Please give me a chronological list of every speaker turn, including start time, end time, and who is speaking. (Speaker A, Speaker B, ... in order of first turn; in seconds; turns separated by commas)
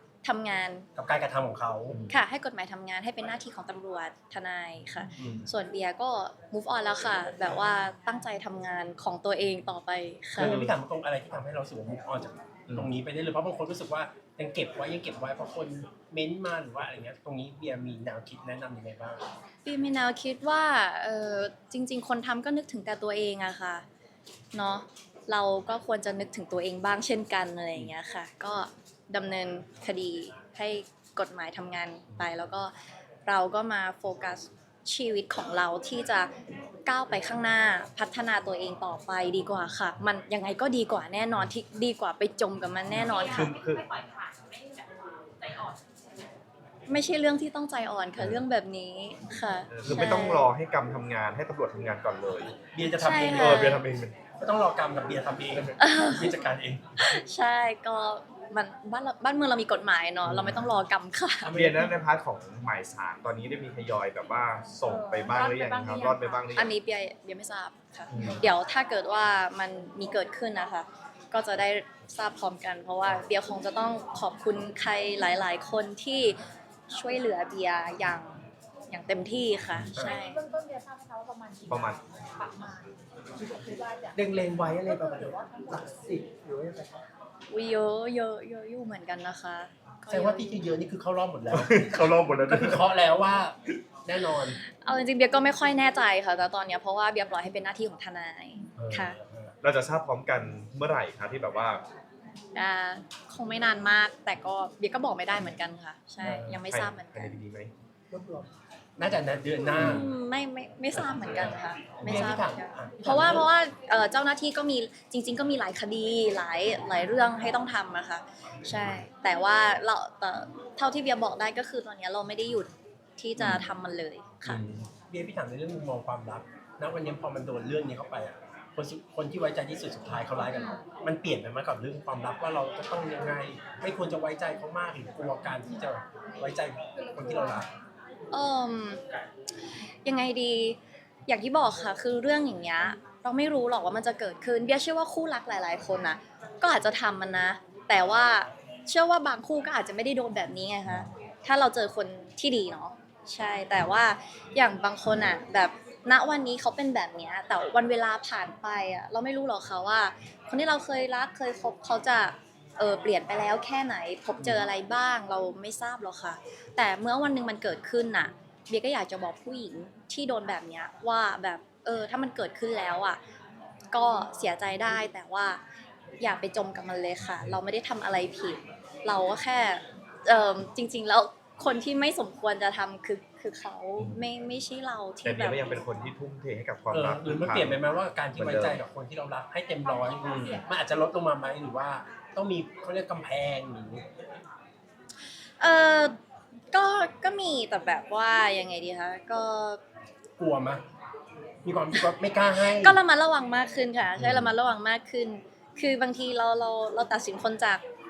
Speaker A: 0.2-0.9, Speaker B: 0.9-2.0, Speaker C: 1.9-2.2, Speaker A: 2.1-10.6, Speaker B: 5.2-5.5, Speaker C: 5.2-5.5, Speaker B: 10.3-19.2, Speaker C: 10.4-10.7, Speaker A: 19.6-23.8, Speaker A: 24.5-32.7, Speaker A: 33.2-36.3, Speaker A: 36.9-43.5, Speaker C: 43.0-43.8, Speaker D: 43.1-44.4, Speaker A: 46.9-50.5, Speaker C: 48.2-48.4, Speaker C: 49.7-52.5, Speaker B: 52.7-53.7, Speaker A: 53.0-53.8, Speaker C: 53.3-54.2, Speaker B: 54.4-57.1, Speaker A: 55.8-56.4, Speaker A: 57.0-61.5, Speaker C: 60.2-60.7, Speaker B: 61.5-61.9, Speaker C: 61.5-66.7, Speaker D: 64.8-66.4, Speaker A: 66.5-76.4, Speaker C: 68.1-68.5, Speaker A: 76.9-80.4, Speaker D: 80.0-82.9, Speaker C: 81.7-82.0, Speaker D: 83.4-84.2, Speaker B: 84.1-85.3, Speaker D: 84.8-85.9, Speaker E: 85.0-87.0, Speaker A: 87.5-90.7, Speaker B: 90.1-94.6, Speaker C: 91.5-92.8, Speaker A: 94.7-99.2, Speaker B: 98.8-99.5, Speaker C: 99.6-101.8, Speaker A: 102.5-107.4, Speaker B: 106.2-106.6, Speaker C: 106.7-107.7, Speaker E: 108.1-108.5, Speaker B: 109.0-110.1, Speaker C: 109.8-110.0, Speaker A: 109.8-124.6, Speaker B: 112.0-113.5, Speaker C: 123.4-123.6, Speaker B: 124.5-137.7, Speaker C: 124.5-124.9, Speaker D: 130.6-130.8, Speaker D: 137.0-137.7, Speaker A: 138.3-139.0, Speaker A: 140.0-173.2, Speaker C: 164.4-164.6, Speaker A: 173.9-175.6, Speaker A: 176.2-185.7, Speaker C: 184.0-184.2, Speaker C: 185.2-187.8, Speaker B: 186.9-194.0, Speaker C: 188.3-188.8, Speaker A: 195.6-196.1, Speaker A: 196.7-199.8, Speaker B: 200.4-200.8, Speaker B: 201.6-203.0, Speaker A: 202.6-207.8, Speaker C: 204.2-204.6